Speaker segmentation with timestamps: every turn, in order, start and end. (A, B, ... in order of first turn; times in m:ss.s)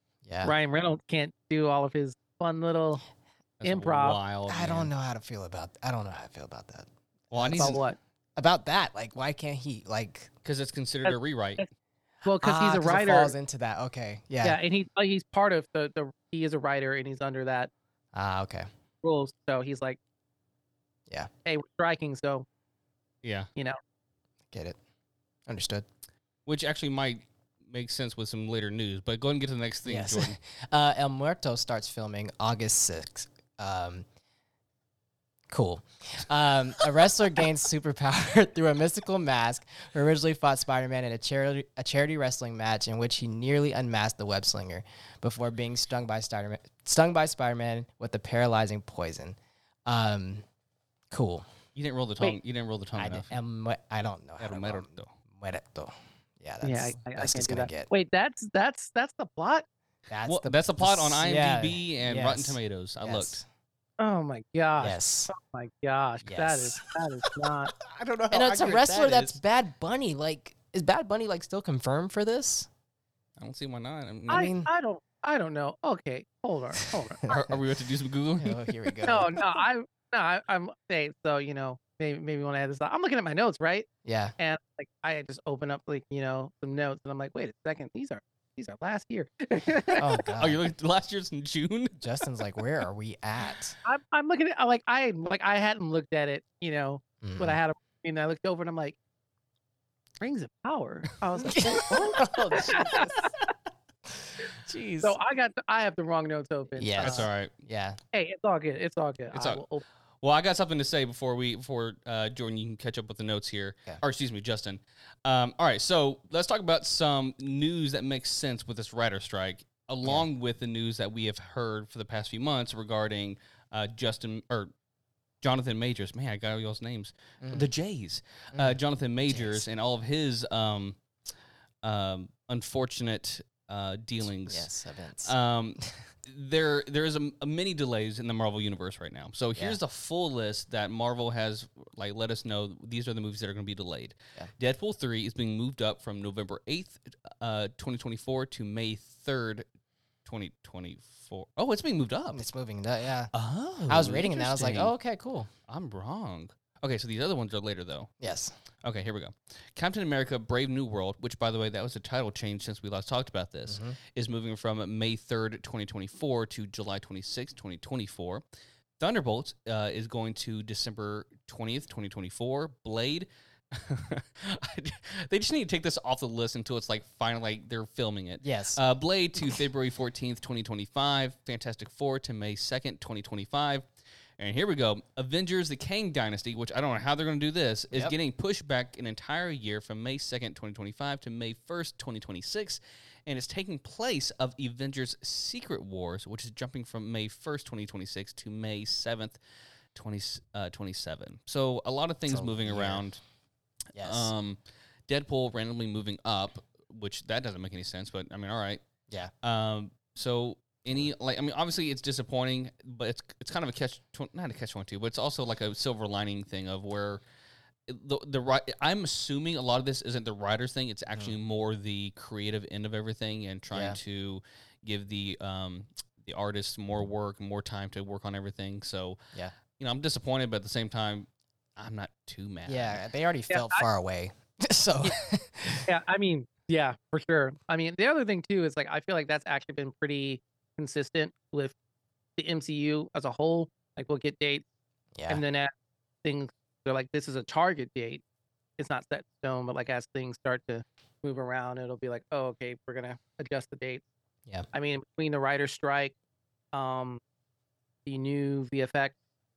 0:00.2-0:00.6 A
0:00.4-0:03.0 B
0:03.6-0:04.9 C
0:03.6-0:04.2 B
0:04.5-0:07.8 A
0:07.3-0:07.8 C
0:07.6-0:08.0 B
0:08.4-0:10.3 A
0:10.4-0:11.6 C
0:11.0-0:11.6 B
0:12.2-0:13.3 B
0:12.4-0:14.6 A
0:14.4-0:17.7 B
0:18.1-0:18.7 A
0:19.0-0:20.0 B
0:21.5-0:22.4 B
0:23.2-0:23.5 C
0:24.5-0:24.8 A
0:25.5-0:25.9 A
0:26.5-0:30.4 C
0:29.8-0:34.0 A
0:35.5-0:50.4 A
0:51.1-0:51.5 A
0:51.8-0:53.3 C
0:53.0-0:57.9 A
0:54.4-0:55.1 C
0:56.6-0:59.6 B
1:00.1-1:03.5 A
1:00.2-1:03.4 C
1:04.0-1:07.7 B
1:04.8-1:05.3 A
1:06.3-1:06.8 A
1:07.8-1:09.4 C
1:08.3-1:12.7 A
1:13.4-1:14.5 C
1:14.3-1:14.7 A
1:14.3-1:17.3 B
1:16.8-1:17.6 A
1:17.3-1:18.6 C
1:18.4-1:19.4 A
1:19.0-1:23.9 B
1:24.0-1:24.4 A
1:24.4-1:30.2 B
1:30.0-1:30.6 A
1:30.4-1:32.0 C
1:32.0-1:33.8 A
1:33.8-1:39.0 B
1:37.2-1:37.6 A
1:40.2-1:43.3 B
1:41.4-1:43.3 A
1:44.6-1:45.2 A
1:45.0-1:47.3 B
1:46.8-1:48.0 A
1:47.0-1:47.5 C
1:48.1-1:49.8 B
1:49.3-1:49.6 C
1:50.2-2:04.7 C
2:05.4-2:11.0 C
2:07.4-2:07.7 A
2:08.5-2:09.7 A
2:11.8-2:14.7 C
2:14.5-2:16.0 A
2:15.2-2:29.6 C
2:30.2-2:32.4 C
2:32.3-2:33.3 A
2:33.3-2:34.9 C
2:33.9-2:35.5 A
2:35.7-2:38.1 C
2:38.2-2:38.5 A
2:38.8-2:48.4 C
2:43.7-2:44.0 A
2:49.0-3:03.8 C
2:58.4-2:58.8 A
3:04.4-3:19.4 C
3:20.0-3:23.2 C
3:22.3-3:23.1 A
3:23.9-3:24.3 A
3:24.0-3:28.8 C
3:29.4-3:37.2 C
3:37.9-3:49.2 C
3:43.7-3:44.0 A
3:49.8-3:53.0 C
3:52.7-3:55.9 A
3:53.5-3:53.8 B
3:55.9-4:01.7 B
4:02.4-4:04.6 B
4:05.2-4:05.4 A
4:05.3-4:05.7 B
4:06.2-4:08.2 B
4:08.8-4:14.0 B
4:14.7-4:16.1 B
4:16.7-4:17.2 B
4:18.0-4:19.1 B